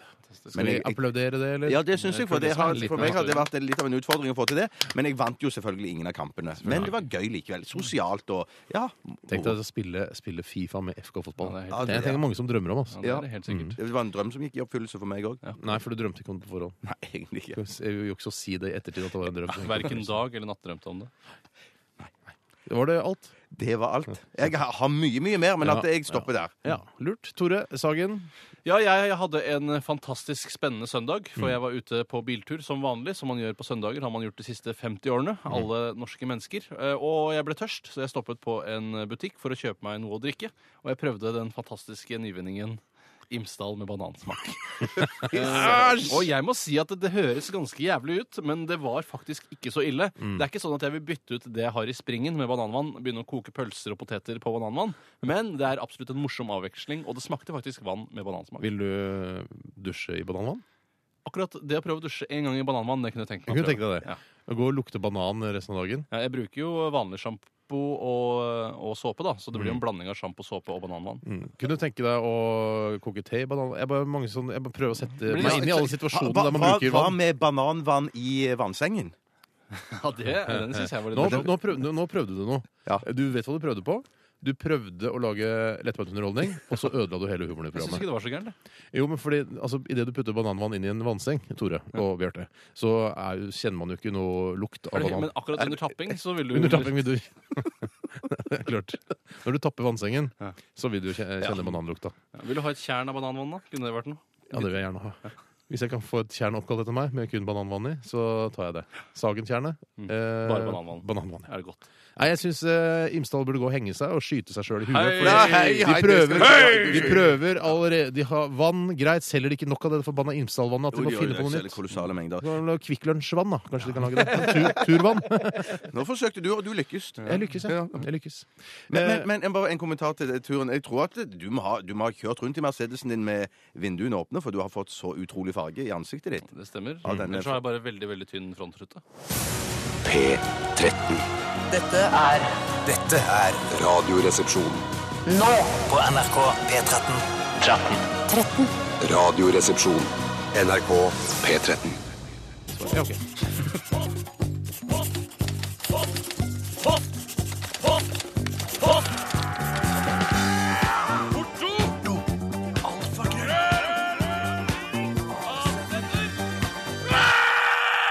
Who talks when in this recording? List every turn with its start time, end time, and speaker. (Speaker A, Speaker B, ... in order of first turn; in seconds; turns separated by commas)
Speaker A: 0.5-1.0, Speaker B: 0.5-3.4, Speaker A: 1.6-9.5, Speaker C: 2.0-3.5, Speaker B: 6.6-6.9, Speaker B: 9.3-13.8, Speaker C: 11.4-12.1, Speaker A: 11.7-12.2, Speaker C: 12.9-13.8, Speaker A: 13.0-15.4, Speaker B: 15.6-16.8, Speaker A: 16.8-17.6, Speaker B: 17.5-20.2, Speaker C: 19.5-21.1, Speaker B: 22.7-23.3, Speaker A: 23.5-26.5, Speaker B: 25.6-28.3, Speaker C: 28.6-58.7, Speaker A: 45.2-46.1, Speaker B: 45.3-46.2, Speaker B: 50.2-50.5, Speaker B: 58.6-60.6, Speaker C: 61.2-64.2, Speaker B: 63.5-66.1, Speaker C: 66.1-71.2, Speaker B: 69.5-69.8, Speaker B: 71.2-77.2, Speaker C: 75.2-75.9, Speaker A: 75.4-79.1, Speaker C: 79.9-81.5, Speaker B: 80.5-88.0, Speaker A: 81.2-81.5, Speaker C: 87.7-88.5, Speaker B: 88.9-95.9, Speaker C: 94.9-97.2, Speaker B: 96.5-102.1, Speaker C: 102.3-104.6, Speaker B: 104.5-111.5, Speaker C: 110.0-111.8, Speaker B: 112.2-125.8, Speaker C: 114.9-117.2, Speaker A: 115.2-117.4, Speaker A: 120.9-122.5, Speaker A: 124.1-125.0, Speaker A: 125.7-128.1, Speaker B: 127.2-129.3, Speaker A: 128.9-136.5, Speaker C: 136.5-139.0, Speaker A: 137.0-137.6, Speaker D: 140.0-141.2, Speaker E: 141.7-143.6, Speaker D: 143.7-144.9, Speaker E: 145.2-148.7, Speaker D: 149.0-152.0, Speaker B: 152.7-153.2, Speaker C: 161.3-162.1, Speaker C: 162.8-164.2, Speaker C: 165.5-166.3